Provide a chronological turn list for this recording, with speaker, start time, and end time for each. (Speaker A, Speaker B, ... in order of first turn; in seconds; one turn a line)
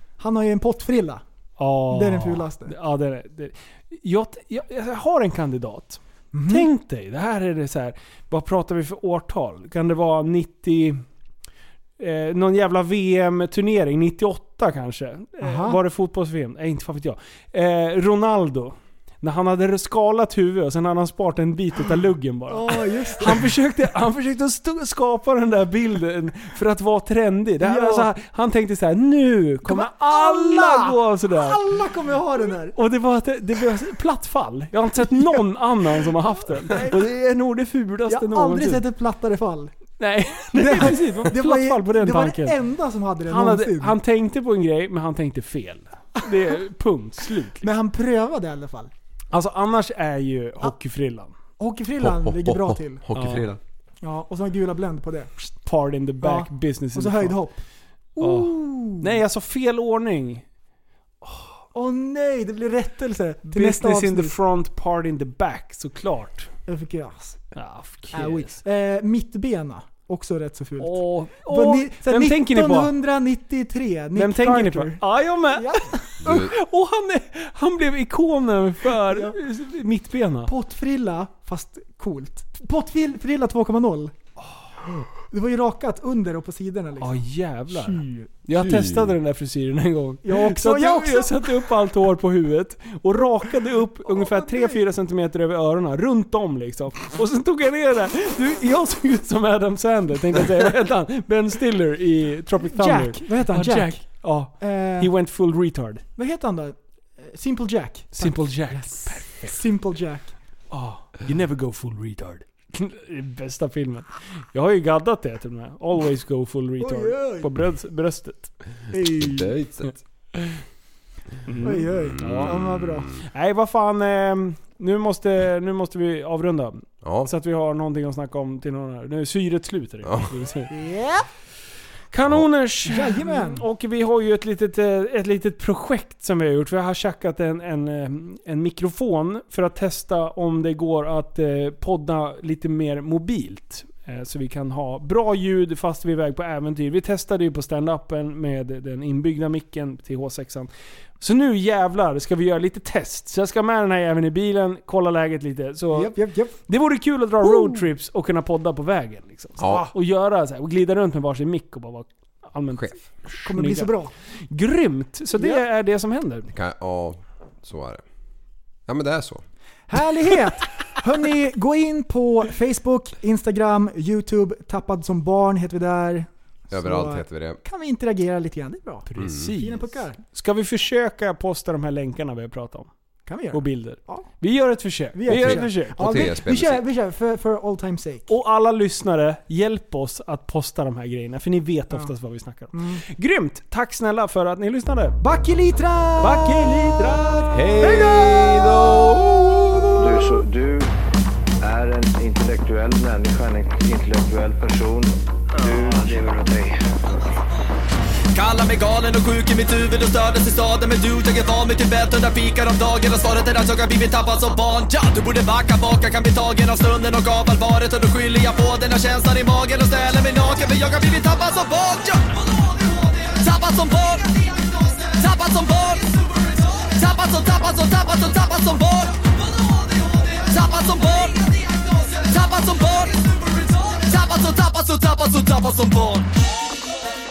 Speaker A: 0.2-1.2
Speaker B: 1.6-11.0
Speaker A: 1.9-2.7
Speaker A: 6.3-6.7
Speaker B: 12.0-31.6
Speaker A: 15.4-15.8
Speaker A: 22.5-23.5
Speaker A: 27.6-28.1
Speaker A: 29.6-32.7
Speaker B: 32.7-38.8
Speaker A: 35.0-35.4
Speaker A: 36.5-37.0
Speaker A: 38.1-39.7
Speaker B: 40.0-42.5
Speaker A: 40.5-44.0
Speaker B: 43.3-47.7
Speaker A: 47.6-48.9
Speaker B: 49.3-51.3
Speaker A: 51.6-53.0
Speaker C: 52.0-53.6
Speaker B: 53.1-53.5
Speaker A: 54.0-55.3
Speaker B: 55.6-57.4
Speaker A: 56.2-57.6
Speaker A: 58.2-59.2
Speaker B: 58.2-60.4
Speaker A: 61.7-64.3
Speaker B: 63.5-66.5
Speaker A: 66.7-67.5
Speaker B: 67.5-68.6
Speaker A: 68.1-76.4
Speaker B: 70.8-72.9
Speaker B: 74.2-80.5
Speaker C: 76.2-76.5
Speaker A: 79.0-79.4
Speaker A: 80.5-84.1
Speaker A: 85.2-88.3
Speaker B: 87.0-106.0
Speaker C: 88.5-89.2
Speaker A: 90.2-91.5
Speaker A: 94.1-94.8
Speaker A: 102.6-105.1
Speaker A: 106.2-110.3
Speaker B: 108.2-109.6
Speaker B: 110.7-118.5
Speaker A: 116.8-117.5
Speaker A: 118.9-119.5
Speaker C: 119.2-120.0
Speaker B: 121.4-122.5
Speaker A: 121.6-123.1
Speaker C: 122.2-123.1
Speaker B: 123.2-130.7
Speaker C: 127.0-127.3
Speaker C: 130.0-130.3
Speaker A: 130.7-131.3
Speaker B: 132.1-156.1
Speaker A: 132.8-133.6
Speaker A: 155.9-156.6
Speaker B: 156.7-163.9
Speaker A: 157.4-157.8
Speaker C: 159.6-159.9
Speaker C: 162.7-163.0
Speaker A: 163.3-164.1
Speaker B: 164.5-166.5
Speaker A: 165.3-165.6
Speaker C: 166.5-168.0
Speaker C: 168.9-169.4
Speaker A: 169.9-180.2
Speaker C: 176.7-177.6
Speaker B: 179.1-182.9
Speaker C: 179.2-179.5
Speaker A: 183.2-184.3
Speaker B: 183.5-186.3
Speaker A: 185.1-188.3
Speaker C: 185.3-186.8
Speaker B: 188.3-195.2
Speaker A: 192.7-193.0
Speaker A: 195.2-196.9
Speaker B: 196.2-197.6
Speaker C: 197.5-200.1
Speaker A: 197.8-198.9
Speaker D: 199.9-200.9
Speaker D: 201.6-206.8
Speaker E: 208.3-236.3